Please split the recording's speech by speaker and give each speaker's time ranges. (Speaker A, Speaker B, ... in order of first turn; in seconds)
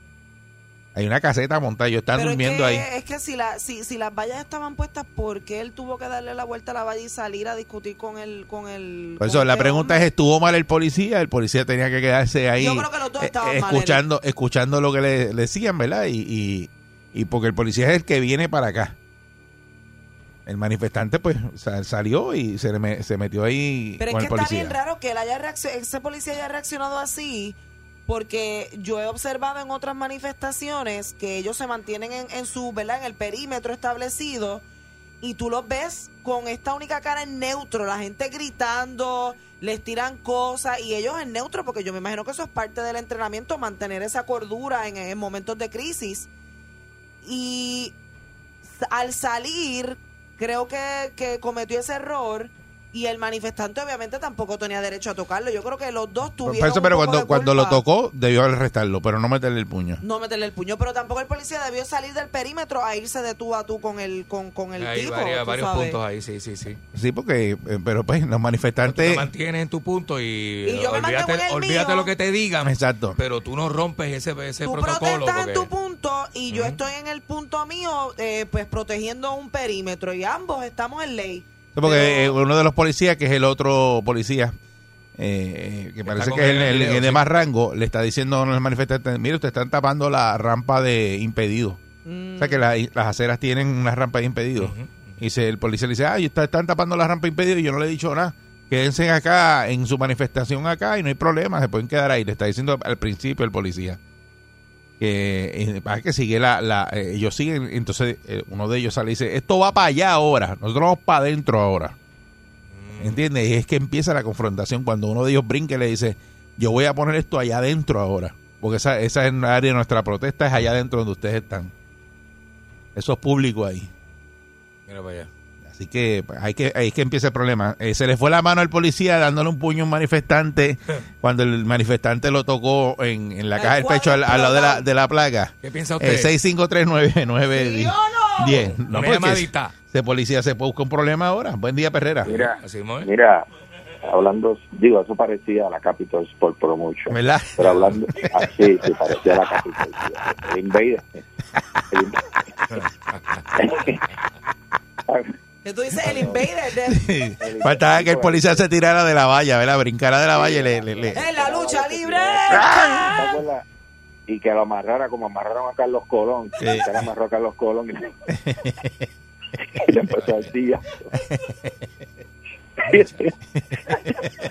Speaker A: 0.9-2.9, 9.2-18.9, 20.4-24.8, 56.4-60.0, 66.9-69.2, 72.6-73.2, 81.7-84.5, 85.2-91.8, 92.4-104.0, 105.0-111.9, 113.0-121.7, 122.9-123.9, 125.7-142.3, 147.1-148.4, 156.9-161.2, 162.5-163.1, 166.6-167.1, 168.4-169.1
Speaker B: 2.1-10.1, 12.6-14.0, 24.0-34.6, 35.2-46.3, 47.2-47.9, 48.8-57.8, 60.0-66.0, 70.6-72.1, 74.6-82.3, 92.0-92.6, 133.6-134.8, 137.5-138.7, 155.6-157.0, 161.1-163.1
Speaker C: 64.8-66.8, 68.8-75.7, 76.5-76.8, 86.0-87.2, 94.6-95.1, 112.7-113.2, 124.9-125.3, 135.6-136.3, 138.9-139.7, 142.6-143.1
Speaker D: 142.2-143.4, 144.0-151.2, 151.9-152.2, 153.5-154.0, 156.0-156.4, 157.4-158.6, 160.3-163.6, 164.3-168.2, 169.8-171.1, 172.8-173.3